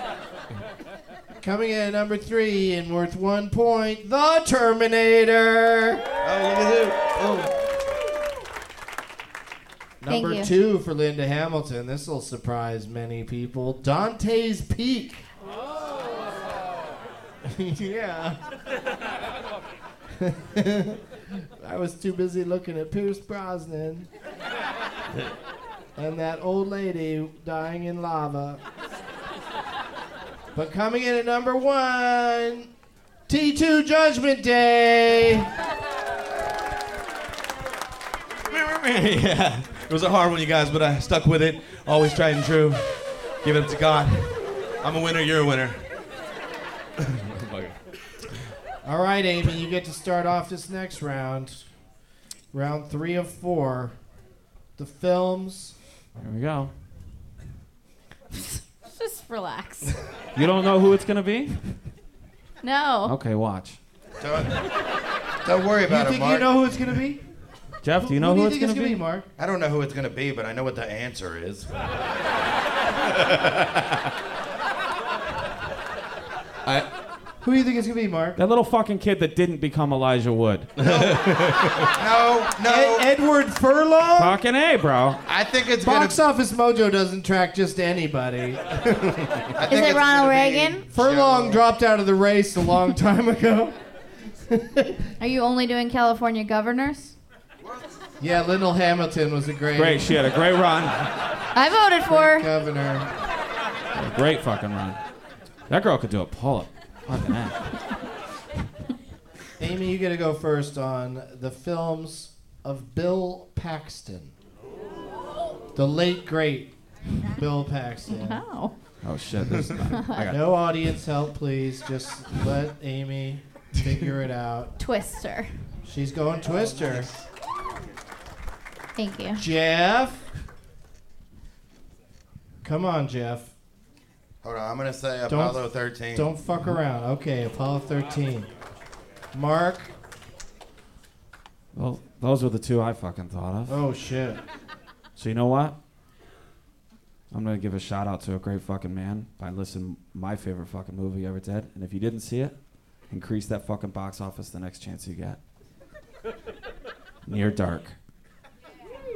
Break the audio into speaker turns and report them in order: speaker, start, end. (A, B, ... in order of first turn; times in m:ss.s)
0:01.4-0:06.0 A
0:06.2-0:07.5 B
0:10.0-0:15.3 A
0:10.1-0:10.5 C
0:17.4-0:18.4 A
0:20.2-0:24.1 A
0:26.0-0:28.6 A
0:30.6-0:32.7 A
0:33.3-0:35.5 A
0:38.5-0:45.9 D
0:47.0-0:47.9 D
0:48.8-0:51.7 A
0:52.5-0:54.0 A
0:54.8-0:55.8 A
0:56.2-0:56.7 E
0:58.3-1:00.0 C
1:00.3-1:01.8 E
1:02.6-1:03.2 C
1:03.0-1:03.8 E
1:04.2-1:04.6 B
1:05.4-1:06.7 B
1:05.9-1:07.2 A
1:07.8-1:09.0 E
1:08.0-1:09.3 A
1:09.4-1:11.7 B
1:17.4-1:18.4 A
1:18.4-1:20.7 E
1:20.8-1:21.9 D
1:22.0-1:23.1 B
1:22.6-1:24.4 A
1:24.2-1:25.2 E
1:25.3-1:26.2 B
1:25.8-1:28.7 A
1:29.6-1:31.6 B
1:29.7-1:30.8 C
1:30.9-1:33.8 A
1:34.5-1:35.0 A
1:35.2-1:37.2 C
1:38.2-1:40.2 A
1:39.8-1:41.1 E
1:41.5-1:42.5 C
1:42.1-1:43.1 A
1:43.9-1:45.0 E
1:45.7-1:47.6 E
1:49.6-1:54.4 A
1:55.8-1:58.4 A
1:58.1-1:58.7 C
1:59.0-2:00.9 E
1:59.5-1:59.7 D
2:00.0-2:00.3 C
2:00.3-2:04.7 A
2:04.8-2:05.5 C
2:05.8-2:07.1 A
2:06.8-2:07.2 D
2:09.0-2:09.4 C
2:09.4-2:10.2 A
2:12.6-2:13.5 A
2:14.4-2:16.3 B
2:15.3-2:18.5 A
2:19.3-2:19.9 A
2:21.7-2:23.8 E
2:23.7-2:24.4 A
2:25.2-2:25.8 E
2:27.3-2:32.6 E
2:33.1-2:35.4 E
2:37.3-2:38.0 E